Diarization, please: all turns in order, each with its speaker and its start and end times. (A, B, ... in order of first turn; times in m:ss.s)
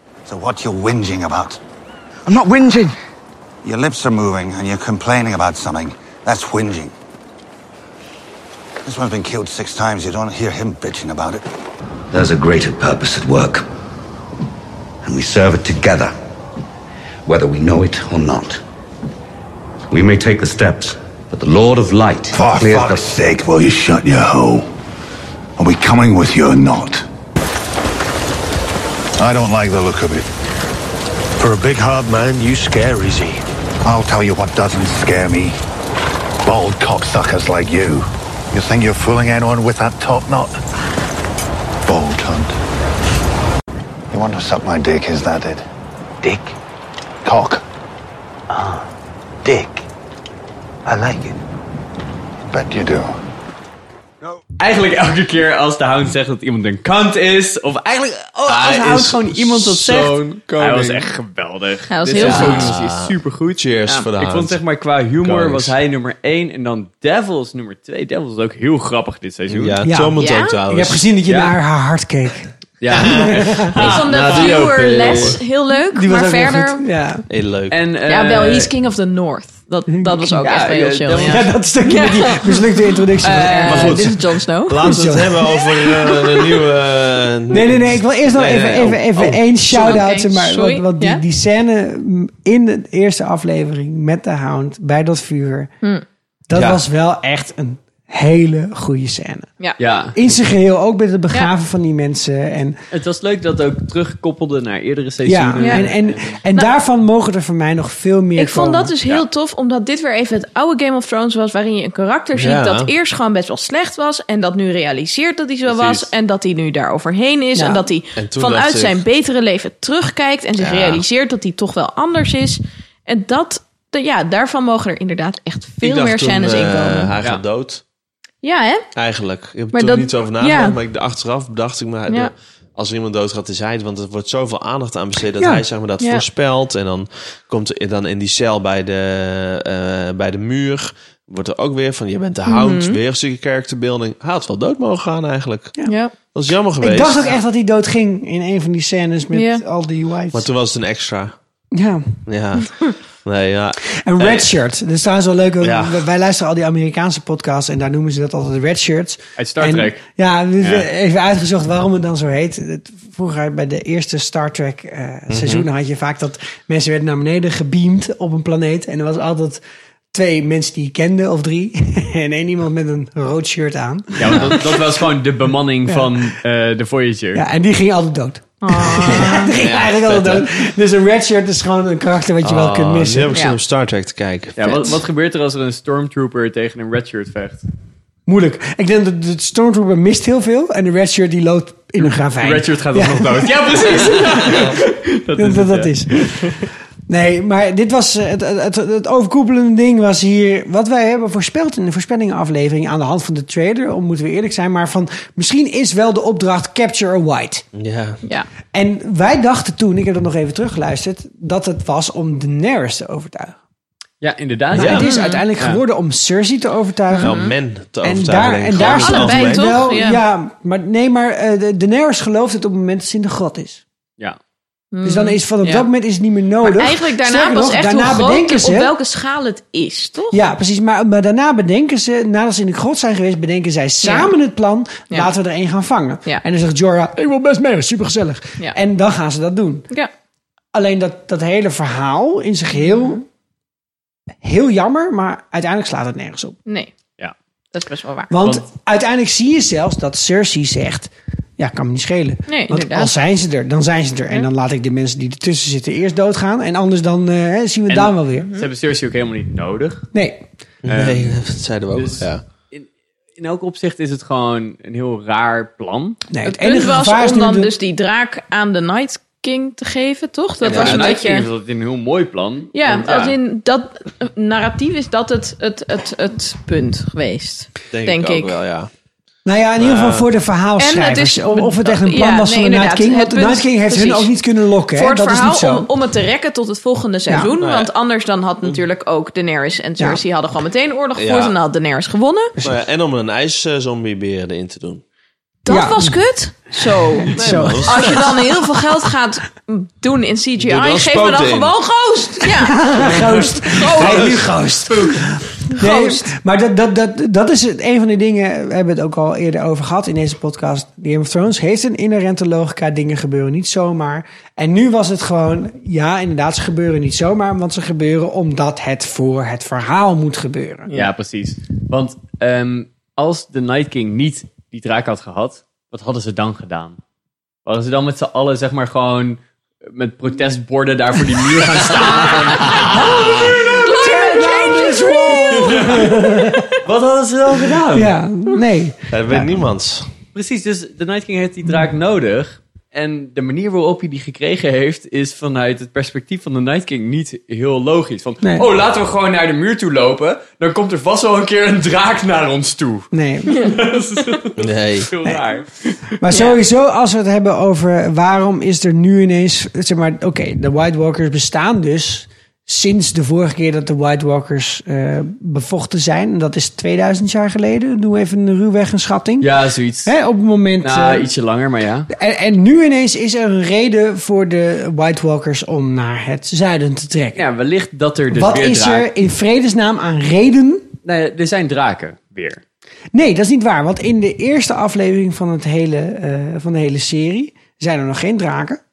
0:00.3-0:01.6 A
0:02.3-0:02.9 A
0:03.6-0:06.9 A
0:08.8-0:11.4 A
0:12.1-0:13.6 B
0:15.0-0:16.1 B
0:17.3-0:18.6 B
0:19.9-0:23.0 B
0:22.3-0:24.7 A
0:25.6-0:27.0 A
0:29.2-0:30.3 A
0:31.4-0:35.6 A
0:36.4-0:40.6 A
0:41.8-0:42.6 A
0:44.1-0:45.6 A
0:46.2-0:46.6 A
0:47.2-0:47.6 A
0:48.5-0:48.9 A
0:49.4-0:49.8 A
0:50.8-0:51.4 A
0:52.5-0:53.1 A
0:54.6-1:09.8 C
0:58.5-1:01.1 D
1:01.9-1:02.7 E
1:02.2-1:04.6 D
1:05.2-1:05.7 D
1:09.5-1:11.0 D
1:09.8-1:10.2 F
1:10.2-1:10.6 E
1:10.7-1:12.5 F
1:11.3-1:11.5 C
1:12.8-1:15.4 C
1:12.9-1:15.4 D
1:13.1-1:13.7 F
1:13.8-1:16.8 E
1:15.9-1:17.2 F
1:17.3-1:17.8 D
1:17.7-1:18.7 C
1:18.1-1:22.7 E
1:19.9-1:20.4 F
1:20.4-1:21.5 C
1:21.2-1:24.2 F
1:23.2-1:25.0 E
1:23.6-1:30.0 D
1:24.8-1:25.4 F
1:25.5-1:26.4 E
1:27.5-1:35.7 F
1:29.7-1:31.2 E
1:36.5-1:39.5 F
1:36.5-1:36.8 D
1:39.8-1:40.2 C
1:40.1-1:42.8 F
1:42.9-1:46.4 C
1:45.2-1:48.9 F
1:45.6-1:45.9 E
1:48.4-2:07.1 E
1:52.3-1:52.9 D
1:55.7-1:56.1 D
1:57.6-1:57.8 F
1:58.2-1:59.0 D
2:00.6-2:01.0 D
2:05.8-2:07.8 D
2:08.4-2:08.9 E
2:09.0-2:25.8 D
2:09.7-2:10.8 E
2:22.5-2:23.0 E
2:25.9-2:26.2 E
2:26.3-2:27.4 D
2:26.8-2:30.5 F
2:29.3-2:29.6 E
2:30.3-2:31.4 D
2:31.7-2:32.2 F
2:32.3-2:34.5 D
2:34.0-2:49.6 F
2:35.6-2:36.0 D
2:39.4-2:40.0 C
2:40.6-2:40.9 C
2:45.3-2:45.7 D
2:50.1-2:54.6 F
2:54.2-2:57.4 C
2:54.3-2:54.6 D
2:55.9-2:56.2 F
2:57.4-3:03.4 F
2:58.6-2:59.5 E
2:59.5-3:00.6 D
3:02.4-3:05.0 D
3:03.3-3:03.6 E
3:04.6-3:07.6 C
3:08.3-3:14.8 F
3:12.0-3:16.6 C
3:15.4-3:16.5 F
3:17.1-3:27.6 F
3:27.7-3:28.2 D
3:28.7-3:33.6 F
3:34.2-3:35.8 C
3:34.7-3:37.3 F
3:34.7-3:35.1 D
3:35.0-3:35.4 E
3:37.1-3:37.5 E
3:37.2-3:39.8 D
3:38.0-3:43.8 F
3:38.8-3:40.2 E
3:44.9-3:45.9 E
3:45.0-3:48.9 F
3:46.6-3:50.4 E
3:50.3-3:59.9 F
3:54.0-3:54.3 E
4:00.7-4:03.2 F
4:04.4-4:06.6 F
4:06.7-4:06.9 E
4:07.7-4:08.3 E
4:08.3-4:18.5 F
4:12.5-4:13.1 E
4:17.9-4:20.1 C
4:20.1-4:20.4 F
4:20.8-4:22.4 D
4:20.9-4:26.2 C
4:26.3-4:27.7 F
4:26.4-4:31.5 E
4:30.6-4:33.4 C
4:30.6-4:31.1 D
4:32.7-4:38.6 E
4:37.9-4:38.9 D
4:39.4-4:45.9 F
4:39.8-4:40.3 D
4:40.8-4:44.3 E
4:44.9-4:52.5 E
4:47.6-4:47.9 D
4:51.2-4:51.6 D
4:52.6-4:55.0 D
4:55.6-5:04.4 E
4:55.7-4:56.1 F
4:57.2-4:58.4 F
4:57.3-4:58.4 D
5:00.6-5:01.7 D
5:02.5-5:05.2 F
5:04.0-5:04.5 D
5:04.9-5:05.2 C
5:05.7-5:06.3 E
5:05.7-5:20.9 F
5:20.9-5:27.0 C
5:27.6-5:29.4 C
5:29.9-5:33.4 C
5:32.9-5:36.7 F
5:33.0-5:36.2 E
5:36.8-5:38.2 C
5:37.9-5:39.5 F
5:39.1-5:40.1 D
5:40.3-5:56.0 C
5:53.1-5:53.6 F
5:54.6-5:55.1 D
5:56.2-6:09.5 F
5:56.3-5:56.6 E
6:09.4-6:10.1 C
6:10.0-6:11.3 F
6:10.8-6:12.1 C
6:12.1-6:17.4 F
6:17.4-6:19.1 C
6:18.3-6:20.9 F
6:21.0-6:22.6 C
6:23.1-6:28.8 F